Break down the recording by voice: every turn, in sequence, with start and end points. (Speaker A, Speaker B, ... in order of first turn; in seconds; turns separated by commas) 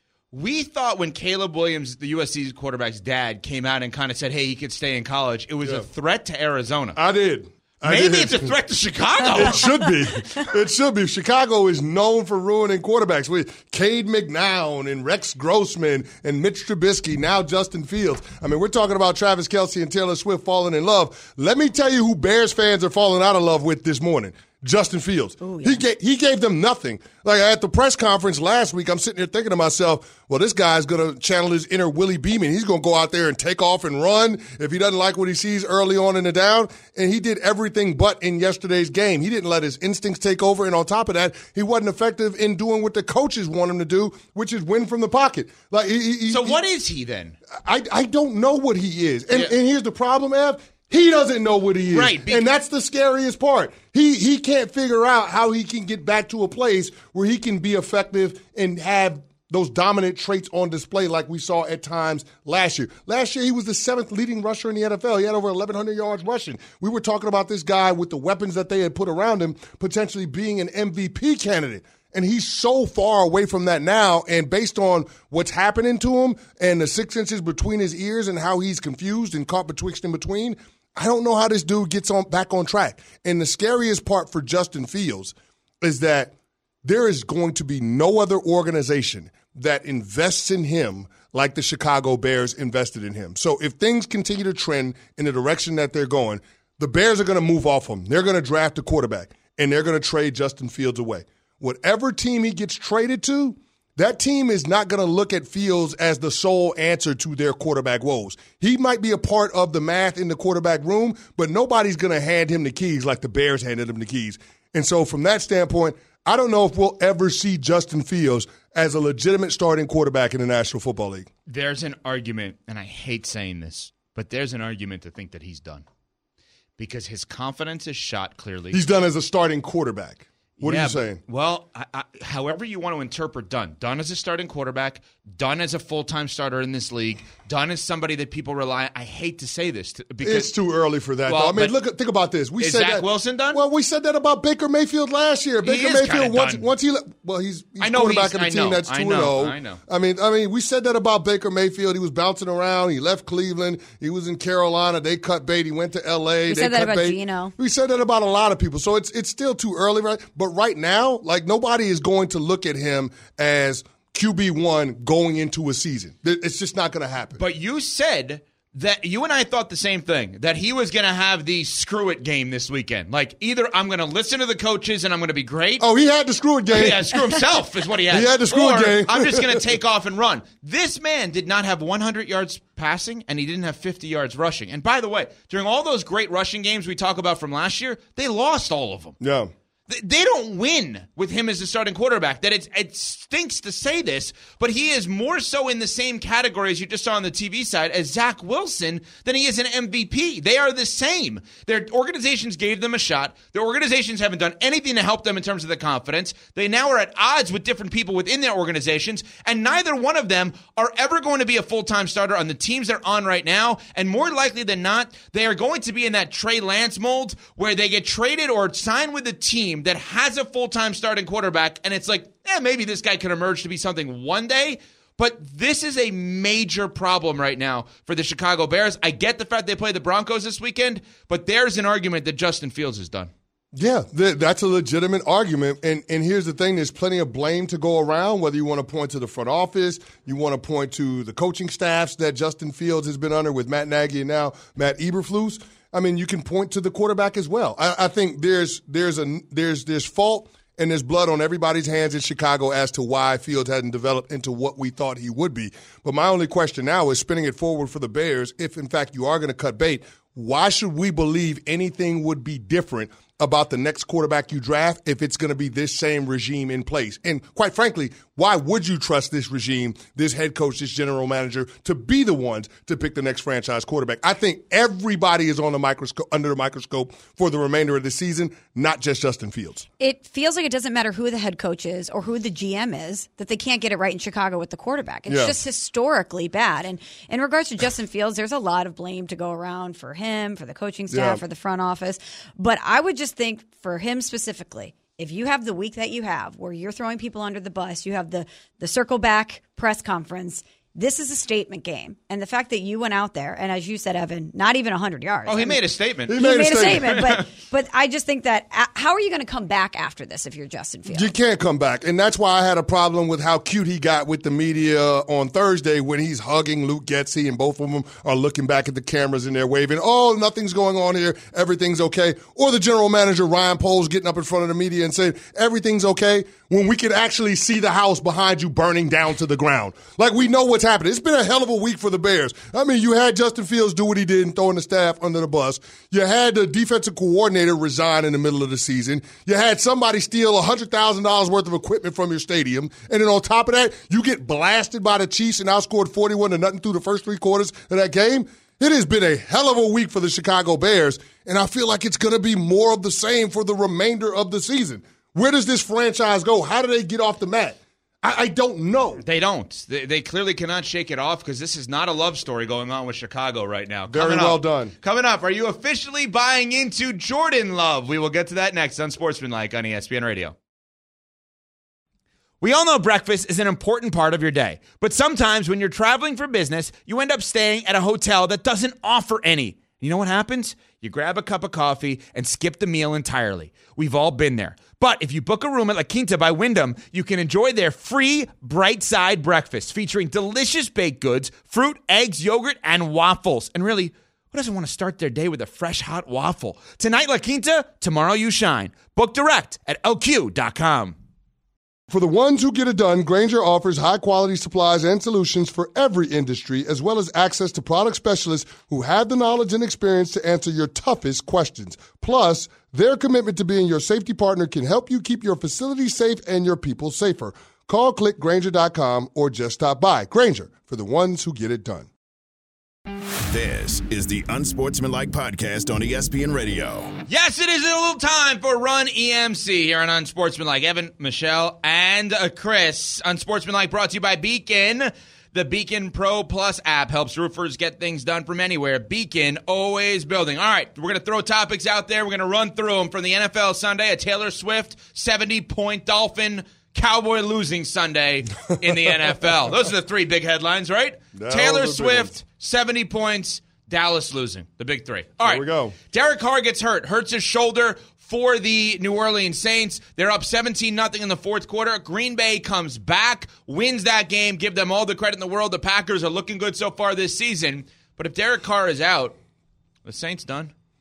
Speaker A: 0.3-7.0, Speaker B: 7.0-8.5, Speaker A: 7.8-9.8, Speaker B: 9.3-46.6, Speaker C: 25.4-25.8, Speaker A: 46.3-47.4, Speaker B: 47.6-121.3, Speaker A: 51.9-52.4, Speaker A: 121.5-125.8, Speaker A: 126.8-128.8, Speaker B: 128.7-131.2, Speaker A: 130.6-140.5, Speaker B: 140.2-167.4, Speaker A: 141.3-141.8, Speaker A: 142.6-143.6, Speaker A: 145.6-146.7, Speaker A: 147.8-149.8, Speaker C: 156.5-157.5, Speaker A: 167.4-175.9, Speaker B: 175.8-177.1, Speaker A: 176.7-189.2, Speaker B: 178.1-179.7, Speaker B: 189.2-189.5, Speaker A: 189.9-233.3, Speaker B: 233.7-279.9, Speaker C: 280.0-305.8, Speaker B: 285.3-285.6, Speaker B: 291.1-291.4, Speaker A: 305.5-307.5, Speaker B: 306.3-307.1, Speaker C: 306.3-311.3, Speaker B: 311.1-359.2, Speaker A: 359.2-370.6, Speaker B: 364.1-364.9, Speaker A: 372.6-401.2, Speaker B: 402.1-422.1, Speaker D: 423.5-427.2, Speaker A: 427.3-469.4, Speaker B: 451.3-452.3, Speaker B: 455.4-455.9, Speaker A: 470.1-470.7